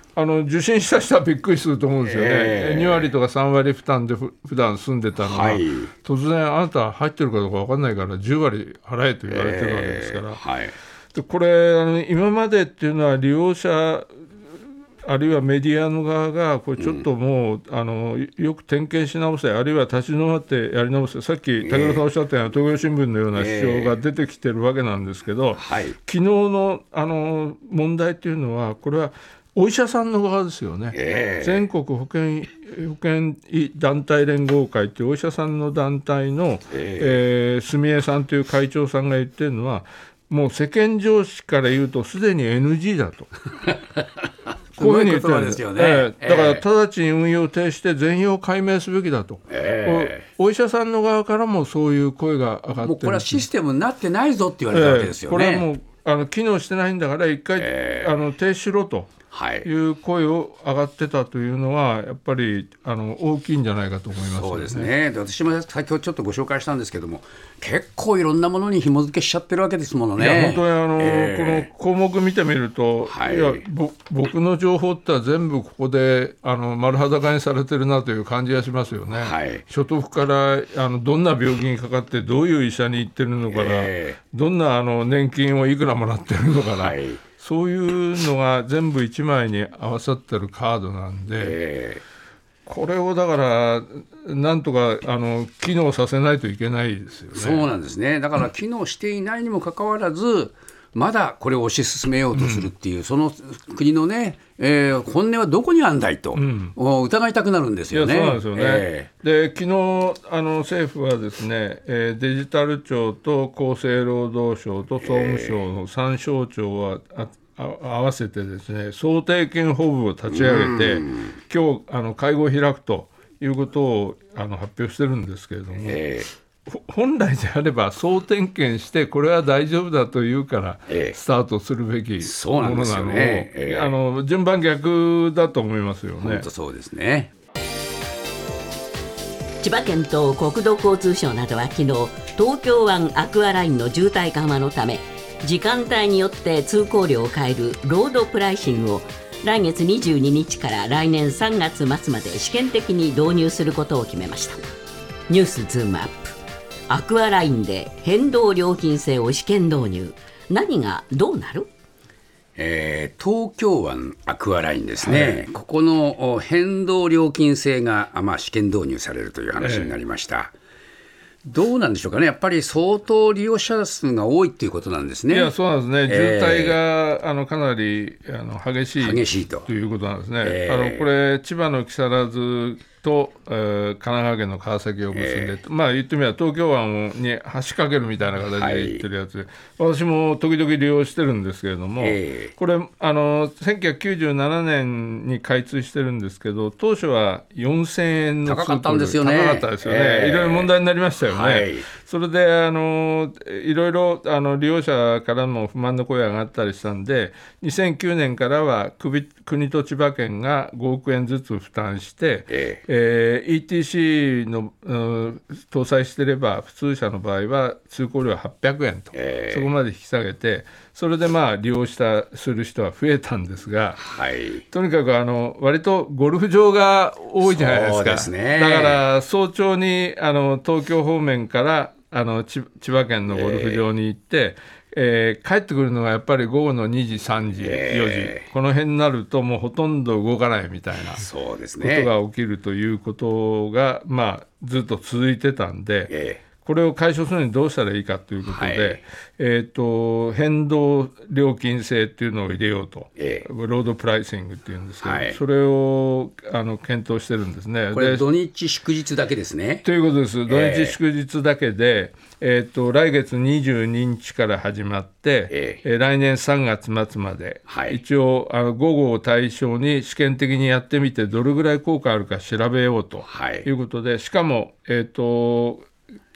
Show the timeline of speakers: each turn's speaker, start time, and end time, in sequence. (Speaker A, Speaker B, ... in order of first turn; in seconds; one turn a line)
Speaker A: 0.1-10.4
Speaker B: 2.0-3.1
Speaker B: 5.2-5.9
Speaker B: 9.3-10.7
Speaker A: 11.1-14.1
Speaker A: 15.0-43.3
Speaker B: 16.8-17.0
Speaker B: 21.6-22.0
Speaker B: 23.3-23.9
Speaker B: 25.6-26.0
Speaker B: 30.9-31.6
Speaker B: 36.7-37.2
Speaker B: 44.8-46.6
Speaker A: 44.8-53.5
Speaker B: 49.5-50.2
Speaker B: 52.8-55.7
Speaker A: 54.7-64.9
Speaker B: 57.6-58.1
Speaker B: 59.3-59.7
Speaker B: 64.2-71.7
Speaker A: 70.2-91.6
Speaker B: 73.1-73.6
Speaker B: 79.1-79.6
Speaker B: 83.5-84.2
Speaker B: 86.8-87.2
Speaker B: 91.4-92.0
Speaker A: 92.7-97.7
Speaker B: 97.3-109.1
Speaker A: 102.3-102.7
Speaker A: 106.3-106.7
Speaker A: 107.9-126.0
Speaker B: 115.0-115.5
Speaker B: 120.3-121.3
Speaker B: 125.8-126.3
Speaker A: 126.7-136.4
Speaker B: 130.9-131.2
Speaker B: 132.2-133.9
Speaker B: 136.2-137.3
Speaker C: 139.6-154.6
Speaker C: 155.3-156.3
Speaker C: 156.9-161.7
Speaker B: 162.6-170.5
Speaker A: 165.0-165.4
Speaker A: 169.6-169.9
Speaker B: 171.4-175.5
Speaker A: 175.3-224.0
Speaker B: 176.1-176.8
Speaker B: 179.0-179.7
Speaker B: 180.4-181.1
Speaker B: 185.1-185.5
Speaker B: 188.5-189.0
Speaker B: 192.0-192.5
Speaker B: 198.4-200.7
Speaker B: 201.2-201.9
Speaker B: 212.5-212.8
Speaker B: 219.1-219.7
Speaker B: 224.0-224.6
Speaker A: 224.7-241.2
Speaker B: 227.4-229.0
Speaker B: 233.3-233.8
Speaker B: 237.6-238.4
Speaker B: 241.2-242.1
Speaker A: 241.8-258.2
Speaker B: 246.1-246.4
Speaker B: 248.4-249.0
Speaker B: 253.2-253.4
Speaker B: 255.0-255.4
Speaker B: 257.9-259.8
Speaker A: 259.8-275.9
Speaker B: 260.5-261.0
Speaker B: 265.5-265.8
Speaker B: 267.7-268.0
Speaker B: 273.3-273.6